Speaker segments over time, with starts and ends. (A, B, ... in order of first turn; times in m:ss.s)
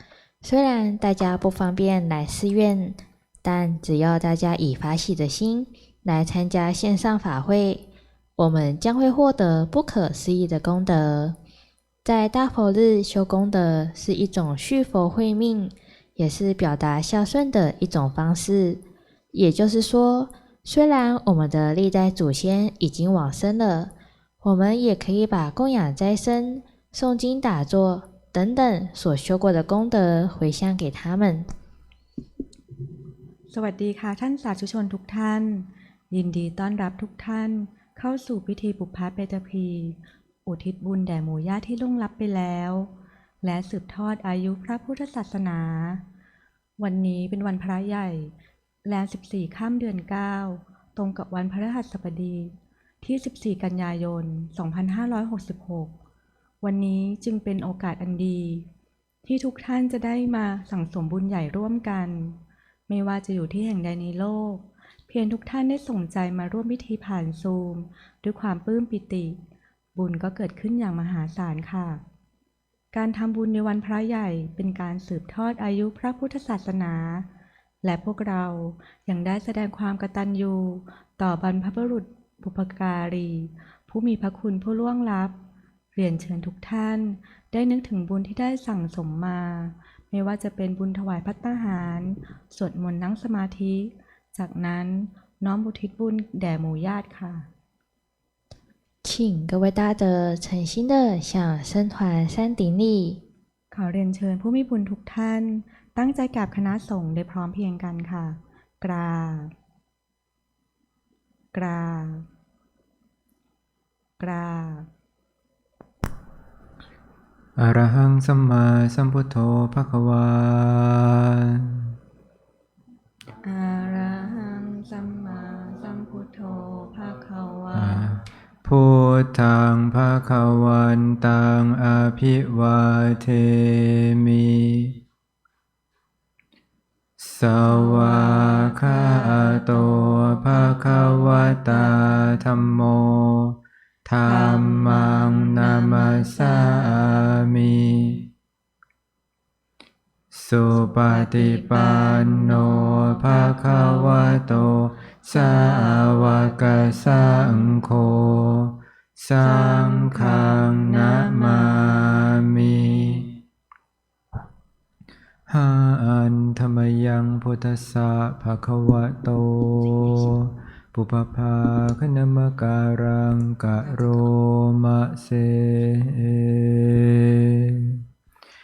0:00.4-0:07.8 A
0:08.4-0:11.4 A
0:12.0-0:18.8 A
0:19.3-0:31.4 A
0:33.5-0:42.9 B
0:43.4-0:46.0 B
0:46.8-0:48.3 B
0:48.8-0:55.9 B
0:56.6-0:58.6 B
0:59.2-1:02.4 B
1:02.9-1:09.4 B
1:10.0-1:12.0 B
1:12.9-1:17.3 B
1:17.8-1:25.3 B
1:25.9-1:37.5 B
1:39.0-1:43.2 A
1:43.7-1:49.5 B
1:51.5-1:52.2 B
1:54.2-1:54.9 B
1:57.6-2:01.8 C
2:03.4-2:08.1 B
2:07.7-2:15.0 C
2:17.2-2:28.2 C
2:17.7-2:20.0 B
2:20.7-2:22.1 B
2:24.3-2:27.0 B
2:30.3-2:43.3 C
2:30.8-2:34.4 B
2:35.3-2:37.8 B
2:39.4-2:43.2 B
2:45.5-2:58.0 C
2:53.8-2:54.3 B